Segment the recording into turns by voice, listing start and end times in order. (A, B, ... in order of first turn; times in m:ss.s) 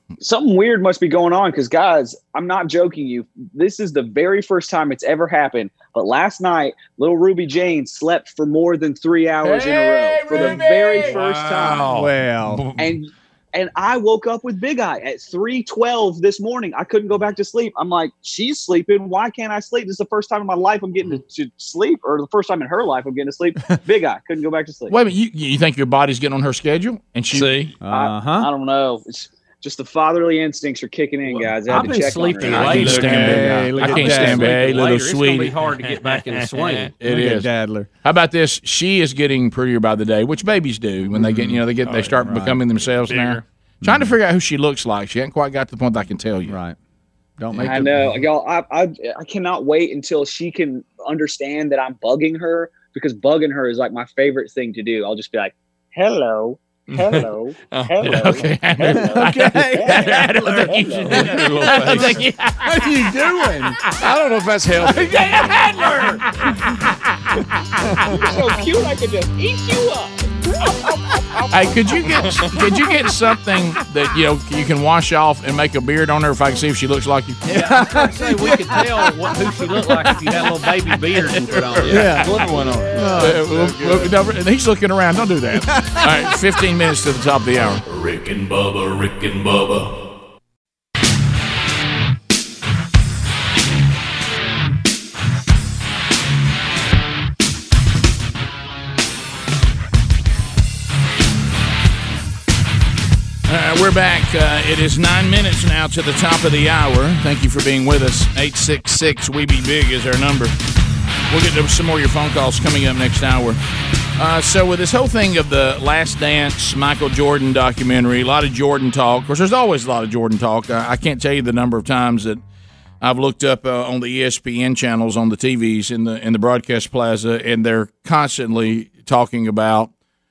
0:00.2-0:11.9 A
0:09.4-0:11.1 B
0:10.4-0:13.0 C
0:11.8-0:12.7 D
0:12.8-0:24.9 A
0:24.9-0:27.7 B
0:27.3-0:27.7 C
0:27.8-0:28.5 D
0:27.9-0:32.9 A
0:31.7-0:36.9 E
0:32.4-0:35.5 B
0:32.5-0:34.0 C
0:32.6-0:34.7 D
0:35.9-0:36.9 C
0:37.0-0:37.5 B
0:37.0-0:37.9 D
0:38.0-0:46.6 B
0:41.1-0:42.6 D
0:41.8-0:42.2 C
0:43.1-0:43.4 C
0:43.8-0:44.1 D
0:46.4-0:46.8 D
0:47.4-0:48.1 D
0:47.5-0:47.9 B
0:47.6-1:01.3 A
0:56.9-0:58.5 C
0:58.0-1:03.0 B
0:59.1-1:02.0 D
1:01.0-1:02.3 C
1:02.7-1:03.8 D
1:04.0-1:05.7 C
1:04.8-1:07.4 B
1:08.1-1:10.3 A
1:11.5-1:17.4 B
1:12.2-1:12.5 C
1:17.5-1:19.3 D
1:17.5-1:22.2 E
1:21.2-1:22.4 B
1:21.9-1:24.1 D
1:22.0-1:23.6 C
1:23.2-1:27.8 B
1:25.7-1:26.3 D
1:27.8-1:29.9 F
1:43.5-1:50.5 B
1:51.3-1:53.6 B
1:54.2-2:02.4 B
2:03.0-2:09.9 B